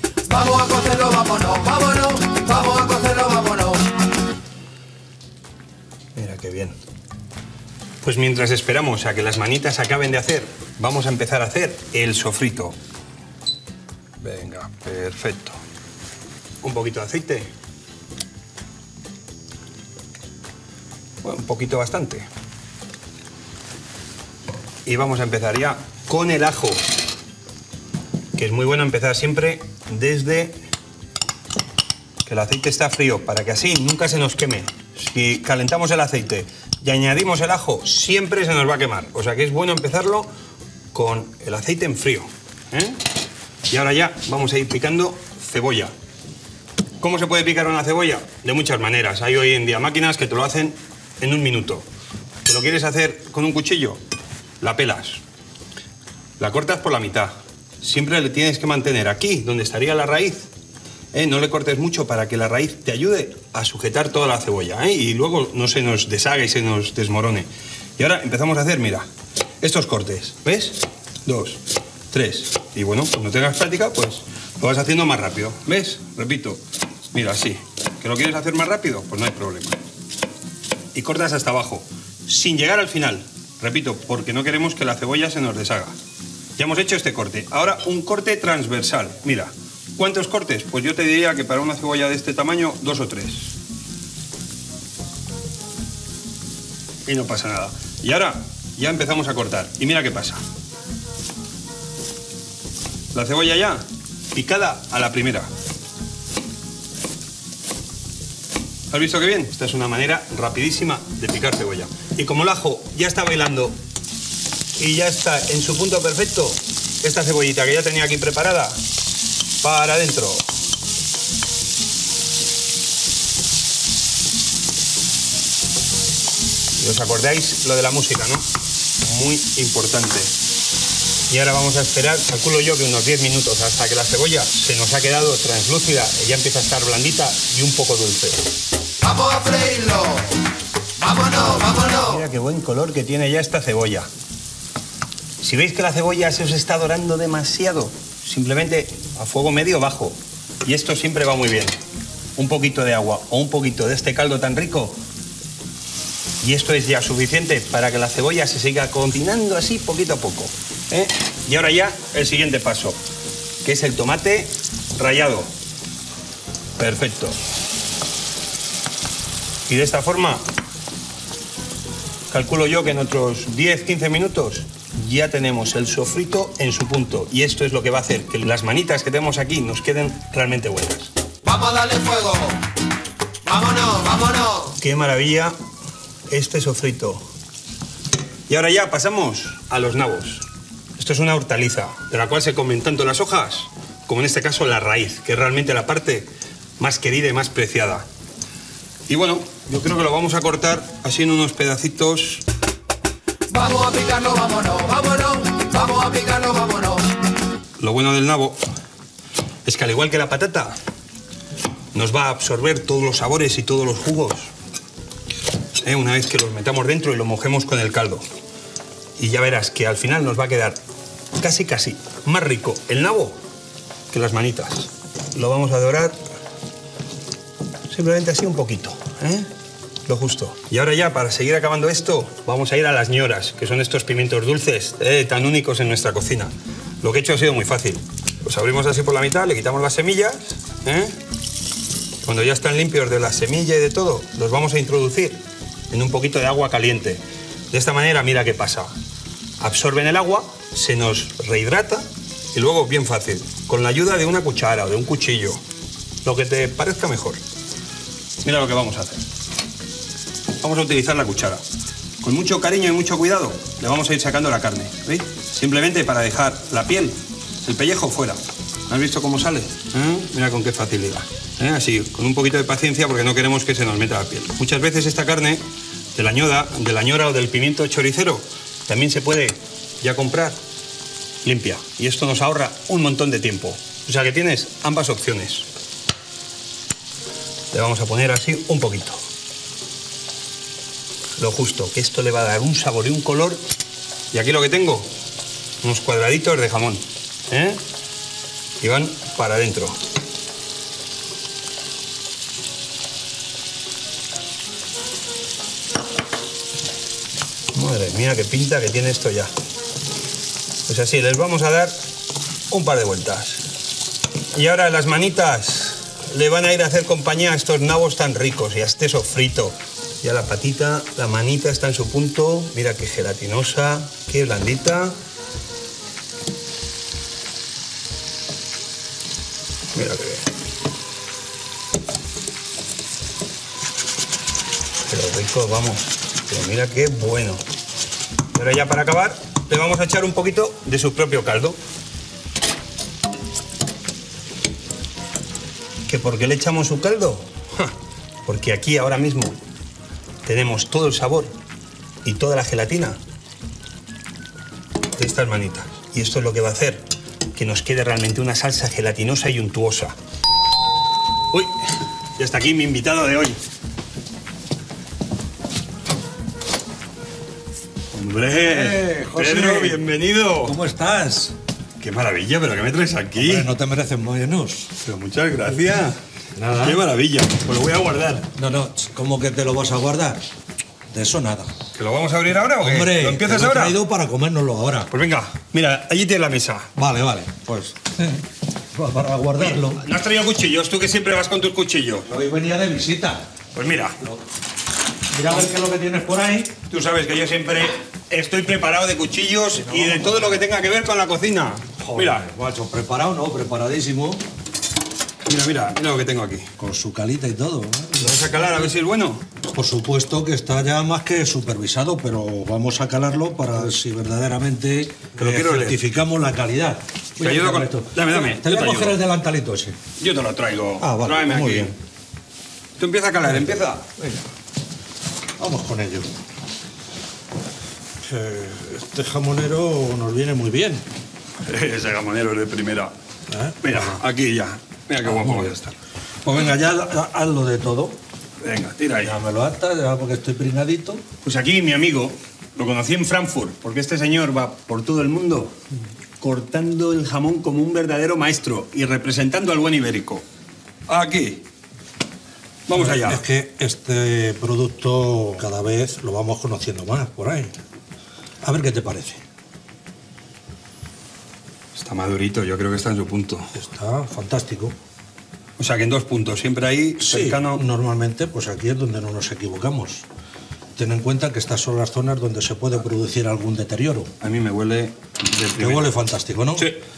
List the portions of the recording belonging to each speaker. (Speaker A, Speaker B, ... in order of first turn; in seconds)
Speaker A: 0.3-3.8, 139.0-140.3, 141.0-142.1, 181.4-182.6, 183.4-184.7, 203.5-207.1
Speaker B: 6.2-6.8, 8.0-12.8, 14.2-15.6, 16.6-17.5, 21.2-22.3, 24.9-26.8, 28.4-30.6, 32.2-40.3, 40.9-43.0, 43.7-45.9, 47.0-51.9, 52.5-54.0, 54.6-55.2, 56.4-60.5, 61.1-69.1, 69.6-71.6, 72.1-76.6, 77.1-79.8, 81.0-85.9, 86.6-93.5, 97.1-100.4, 103.1-105.5, 108.9-113.8, 114.8-118.8, 119.6-120.4, 126.8-128.4, 129.0-130.3, 131.3-138.5, 141.9-144.1, 145.4-151.8, 152.4-155.0, 156.4-163.0, 163.6-165.5, 166.8-167.4, 169.7-170.4, 172.3-181.1, 184.8-185.6, 186.3-187.2, 188.5-190.5, 191.0-198.1, 199.1-202.4, 207.8-208.6, 209.7-210.8, 211.9-214.5, 215.8-218.2, 219.2-220.8, 221.4-223.4, 224.1-226.2, 227.9-229.5, 230.1-241.2, 242.2-245.4, 245.9-248.9, 249.6-255.6, 256.2-257.4, 258.4-259.2, 260.6-261.6, 262.2-275.6, 276.1-280.6, 281.4-285.7, 287.7-289.2, 291.4-293.6, 294.3-295.1, 295.8-297.8, 298.8-300.0, 307.7-309.5, 310.9-312.0, 312.7-313.6, 314.5-325.2, 329.9-330.5, 335.1-337.6, 338.5-341.8, 346.1-347.9, 348.4-349.6, 350.4-351.5, 352.2-353.2, 355.1-360.1, 361.5-363.6, 368.1-370.8, 372.0-373.7, 375.0-376.2, 376.8-378.5, 381.9-384.0, 385.1-386.9, 389.6-392.3, 393.7-394.2, 396.9-402.4, 405.5-406.7, 408.2-409.4, 415.4-416.0, 417.4-419.2, 420.2-421.9, 423.0-424.1, 431.7-433.1, 433.8-435.9, 438.6-439.4, 441.4-445.8, 446.4-450.4, 451.1-451.6, 452.9-453.4, 461.9-463.7, 465.8-467.8, 474.4-476.1
Speaker C: 368.7-370.0, 370.6-371.5, 373.4-374.9, 376.6-377.0, 378.6-380.4, 381.1-381.7, 382.8-385.1, 387.0-388.4, 388.9-390.0, 392.3-393.5, 395.3-396.8, 399.9-400.6, 402.0-404.4, 406.8-408.6, 409.6-420.0, 421.0-421.9, 423.5-424.4, 425.6-426.3, 428.2-431.1, 433.5-434.2, 435.3-435.7, 436.4-438.2, 439.2-441.2, 452.9-457.8, 458.6-459.4, 463.7-465.0, 467.3-470.2, 471.0-474.3, 475.8-476.9